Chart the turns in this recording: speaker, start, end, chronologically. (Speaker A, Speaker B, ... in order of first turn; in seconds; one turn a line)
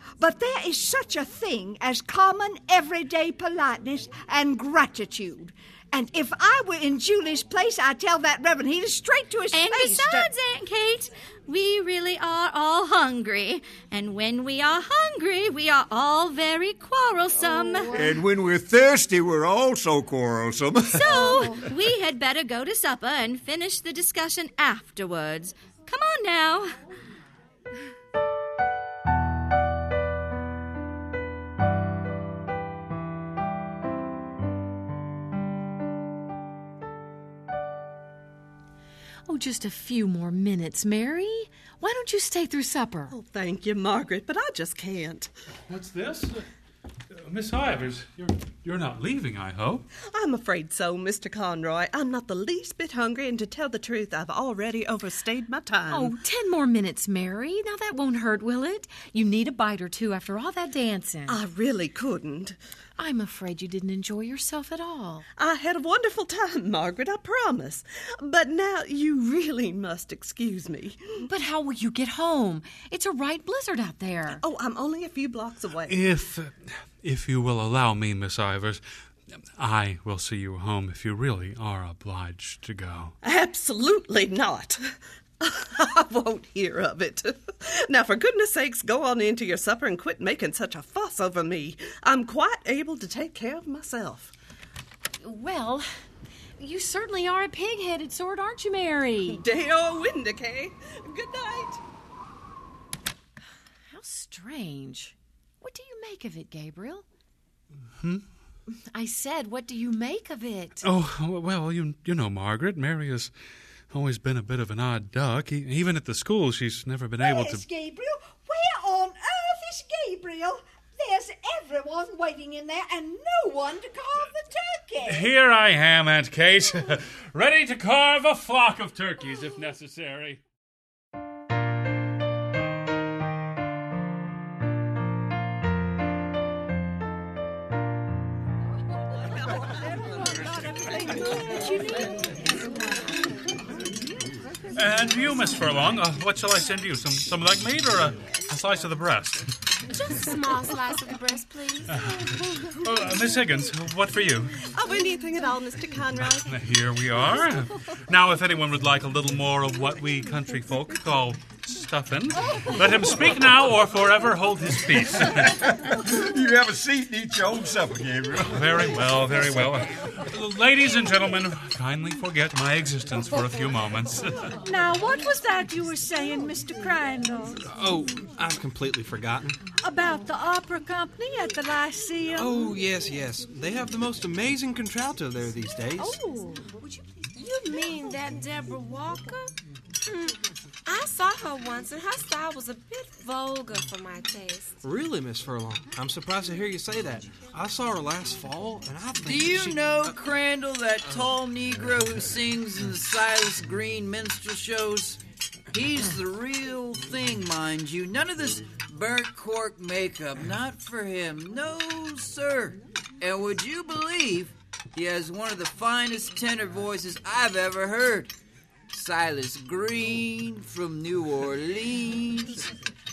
Speaker A: 0.2-10.3
Speaker B: 9.5-17.9
Speaker A: 17.4-17.9
Speaker C: 17.9-21.4
Speaker B: 20.9-26.7
Speaker A: 21.0-21.7
Speaker D: 39.2-43.1
Speaker E: 43.1-45.3
Speaker F: 45.6-46.5
Speaker F: 47.1-49.9
Speaker E: 50.1-56.1
Speaker D: 55.9-61.4
Speaker E: 61.3-62.5
Speaker D: 63.0-65.2
Speaker E: 65.4-71.0
Speaker D: 71.2-74.4
Speaker E: 74.3-76.0
Speaker F: 75.8-78.8
Speaker F: 79.6-83.1
Speaker E: 83.2-94.3
Speaker D: 95.2-95.9
Speaker D: 96.6-99.4
Speaker E: 99.3-101.8
Speaker D: 103.9-107.0
Speaker F: 108.0-108.2
Speaker D: 108.9-110.8
Speaker F: 110.8-113.3
Speaker F: 113.9-117.6
Speaker A: 117.2-125.3
Speaker F: 125.0-130.4
Speaker A: 139.7-143.0
Speaker F: 144.7-149.4
Speaker G: 149.9-151.9
Speaker F: 151.9-154.6
Speaker E: 154.7-156.5
Speaker F: 156.4-165.6
Speaker C: 165.4-168.9
Speaker F: 168.5-174.5
Speaker H: 174.6-177.6
Speaker I: 177.6-179.6
Speaker H: 179.8-182.5
Speaker I: 182.4-186.2
Speaker G: 186.0-189.5
Speaker G: 190.1-194.8
Speaker I: 194.8-200.2
Speaker J: 199.2-205.2
Speaker J: 205.7-218.3
Speaker J: 218.9-222.7